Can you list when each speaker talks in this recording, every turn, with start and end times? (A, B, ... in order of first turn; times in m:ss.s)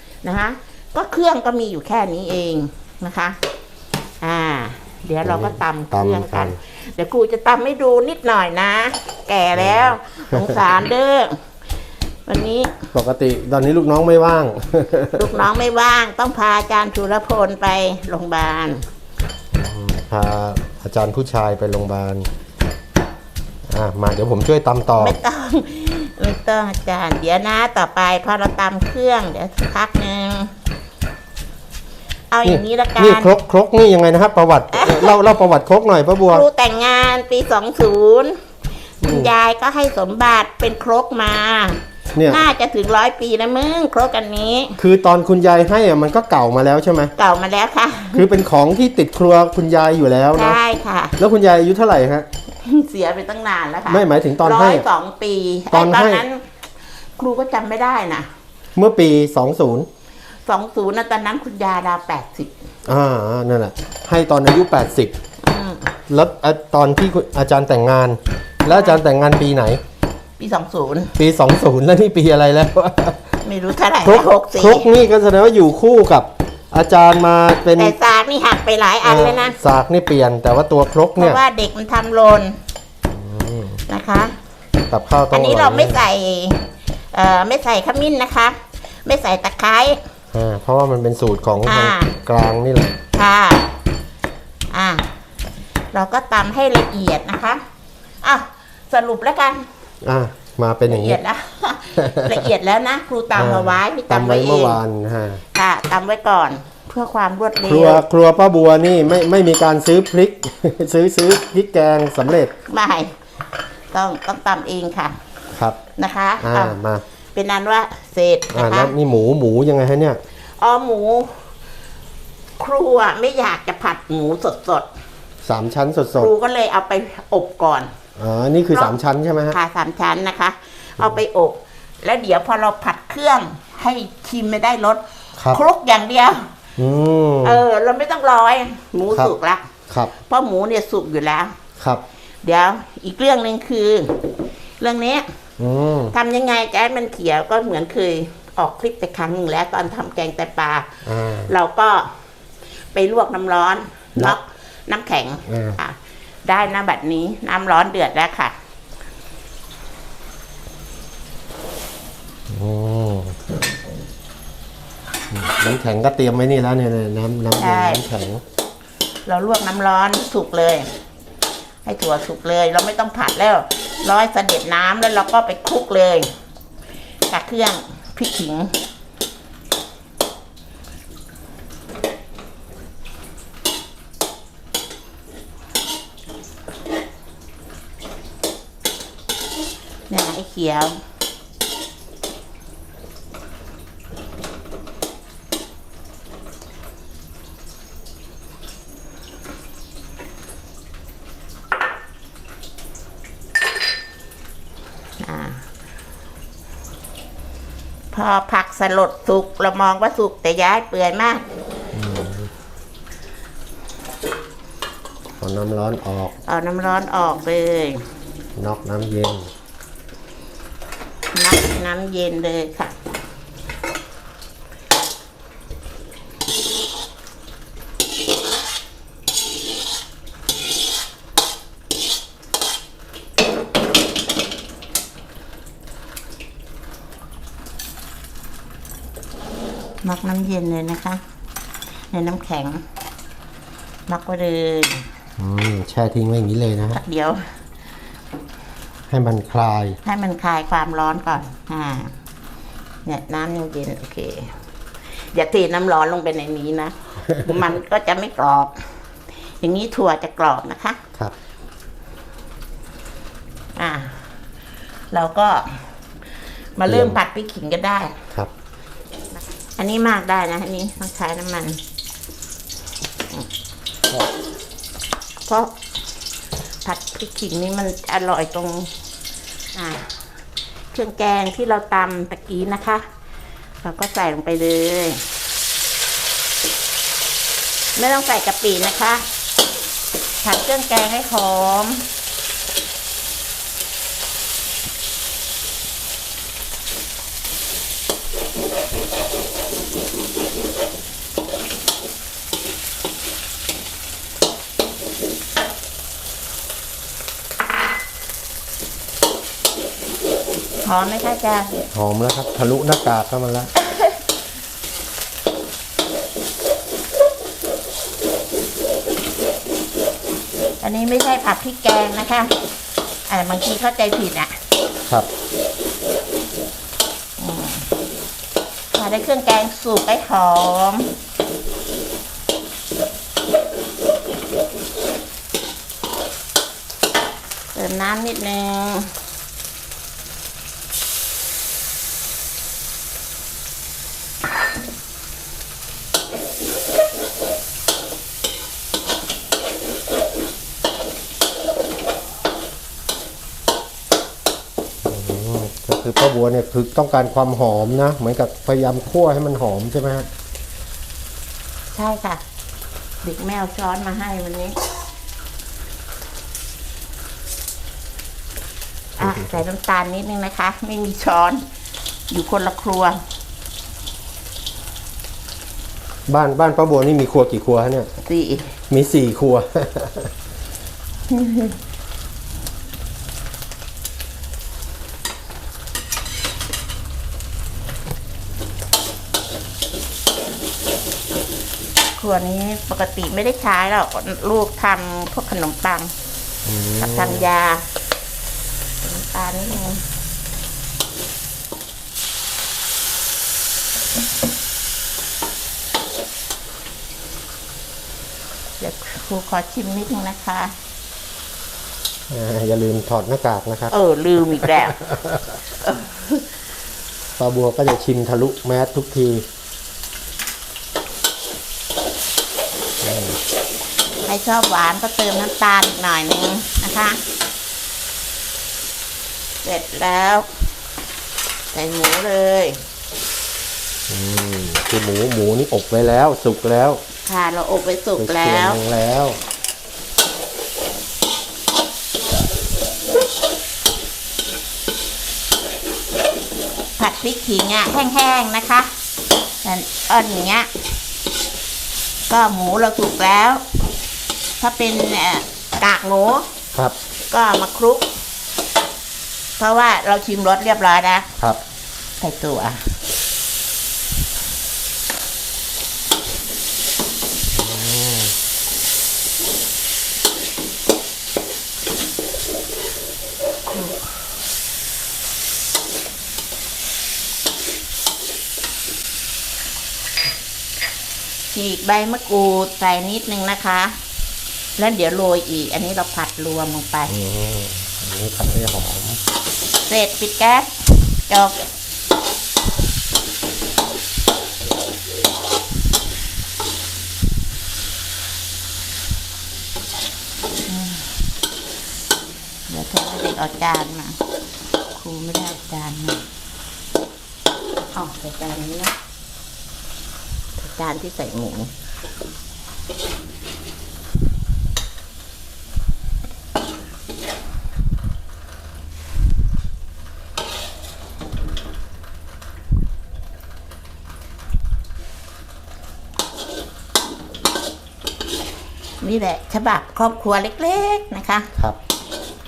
0:00.2-0:03.4 A
0:04.2-0:11.4 A
0:05.2-0:06.6 B
0:09.5-0:10.6 B
0:12.3-0:12.7 A
0:12.9-0:15.4 B
0:15.2-0:18.8 A
0:19.5-0:22.3 B
0:23.7-0:25.2 B
0:25.0-0:30.5 A
0:32.3-0:33.3 A
0:32.4-0:36.5 B
0:34.7-0:35.2 A
0:36.3-0:38.4 A
0:39.0-0:44.8 A
0:39.0-0:39.3 B
0:42.2-0:42.4 B
0:44.8-0:47.1 B
0:47.2-0:48.2 A
0:48.1-0:50.6 B
0:50.4-0:51.2 A
0:51.2-0:52.3 B
0:52.6-0:56.5 A
0:53.9-0:54.9 B
0:55.7-0:56.2 B
0:57.2-0:58.3 A
0:58.8-0:59.9 B
1:00.5-1:02.5 A
1:02.9-1:05.1 B
1:05.4-1:05.9 A
1:06.1-1:09.8 B
1:08.7-1:09.0 A
1:10.4-1:11.1 A
1:11.2-1:13.3 B
1:13.4-1:14.9 A
1:14.0-1:18.0 B
1:17.8-1:19.6 A
1:19.0-1:21.4 B
1:21.2-1:22.6 A
1:23.1-1:23.8 B
1:23.9-1:24.4 A
1:24.9-1:26.1 B
1:25.3-1:30.0 A
1:30.3-1:33.0 B
1:31.6-1:32.1 A
1:33.1-1:33.7 A
1:34.7-1:35.1 A
1:35.9-1:37.6 A
1:38.2-1:39.7 A
1:40.0-1:41.2 B
1:40.9-1:44.8 A
1:42.0-1:42.5 B
1:43.3-1:45.4 B
1:45.6-1:48.0 A
1:47.7-1:52.5 B
1:52.7-1:53.1 A
1:53.9-1:55.2 A
1:55.5-1:55.8 B
1:56.0-1:56.8 A
1:56.4-1:57.0 B
1:57.3-1:58.9 A
1:58.5-2:00.2 B
2:00.6-2:01.5 A
2:02.6-2:04.9 A
2:05.4-2:06.3 B
2:06.2-2:07.9 A
2:08.2-2:09.6 B
2:08.7-2:09.0 A
2:09.5-2:16.5 A
2:16.8-2:17.6 B
2:17.4-2:21.6 A
2:19.1-2:19.4 B
2:22.4-2:24.2 A
2:24.8-2:25.3 A
2:25.6-2:26.1 B
2:26.1-2:32.1 A
2:31.1-2:31.5 B
2:32.9-2:38.6 A
2:35.5-2:35.8 B
2:42.5-2:43.4 B
2:45.3-2:48.4 B
2:47.6-2:48.0 A
2:49.3-2:50.9 A
2:51.8-2:56.3 A
2:57.3-2:58.7 A
3:10.1-3:11.0 A
3:25.2-3:25.6 A
3:28.1-3:31.4 A
3:31.9-3:32.5 B
3:35.4-3:36.3 B
3:36.5-3:38.0 A
3:38.6-3:39.5 B
3:41.3-3:43.0 A
4:00.0-4:01.2 A
4:02.1-4:02.8 A
4:04.1-4:05.1 A
4:05.4-4:07.0 B
4:06.9-4:07.5 A
4:09.1-4:10.0 B
4:10.0-4:12.1 A
4:13.0-4:14.6 A
4:15.3-4:18.8 A
4:19.6-4:21.0 A
4:23.8-4:24.3 A
4:25.1-4:25.9 A
4:26.8-4:28.2 A
4:26.9-4:27.2 B
4:29.8-4:31.8 A
4:35.5-4:35.7 A
4:36.8-4:38.9 A
4:39.7-4:40.2 A
4:40.9-4:43.0 A
4:43.8-4:45.2 A
4:48.0-4:49.2 A
4:50.4-4:52.1 A
5:10.8-5:11.8 A
5:11.9-5:13.7 B
5:13.8-5:14.2 A
5:20.8-5:22.6 A
5:23.3-5:24.6 A
5:27.4-5:27.9 A
5:28.9-5:31.1 A
5:37.7-5:39.1 A
5:55.0-6:00.3 B
6:01.9-6:02.4 A
6:03.2-6:04.8 A
6:09.2-6:11.6 A
6:09.2-6:09.6 B
6:12.3-6:13.2 A
6:16.3-6:18.1 B
6:18.2-6:18.7 A
6:18.9-6:20.3 B
6:21.3-6:21.7 A
6:32.2-6:36.1 A
6:36.7-6:37.5 B
6:37.0-6:37.9 A
6:39.0-6:40.0 A
6:48.8-6:50.7 A
6:52.3-6:53.9 B
6:53.9-6:55.0 A
6:54.6-6:55.5 B
6:55.8-6:56.4 A
6:57.4-6:59.4 B
7:03.0-7:03.4 B
7:04.3-7:07.2 A
7:09.6-7:10.5 A
7:11.7-7:12.8 A
7:14.1-7:17.0 B
7:17.3-7:18.8 A
7:18.2-7:19.4 B
7:27.0-7:28.9 A
7:29.6-7:30.7 A
7:32.3-7:33.6 A
7:34.6-7:36.5 A
7:37.3-7:38.1 A
7:39.6-7:41.3 A
7:42.2-7:42.8 A
7:47.5-7:48.3 B
8:01.5-8:03.9 A
8:04.8-8:07.1 A
8:07.1-8:09.2 B
8:09.9-8:11.6 A
8:20.7-8:21.2 A
8:22.7-8:24.2 A
8:24.9-8:26.2 A
8:27.9-8:28.9 A
8:30.6-8:31.7 A
8:49.0-8:51.5 A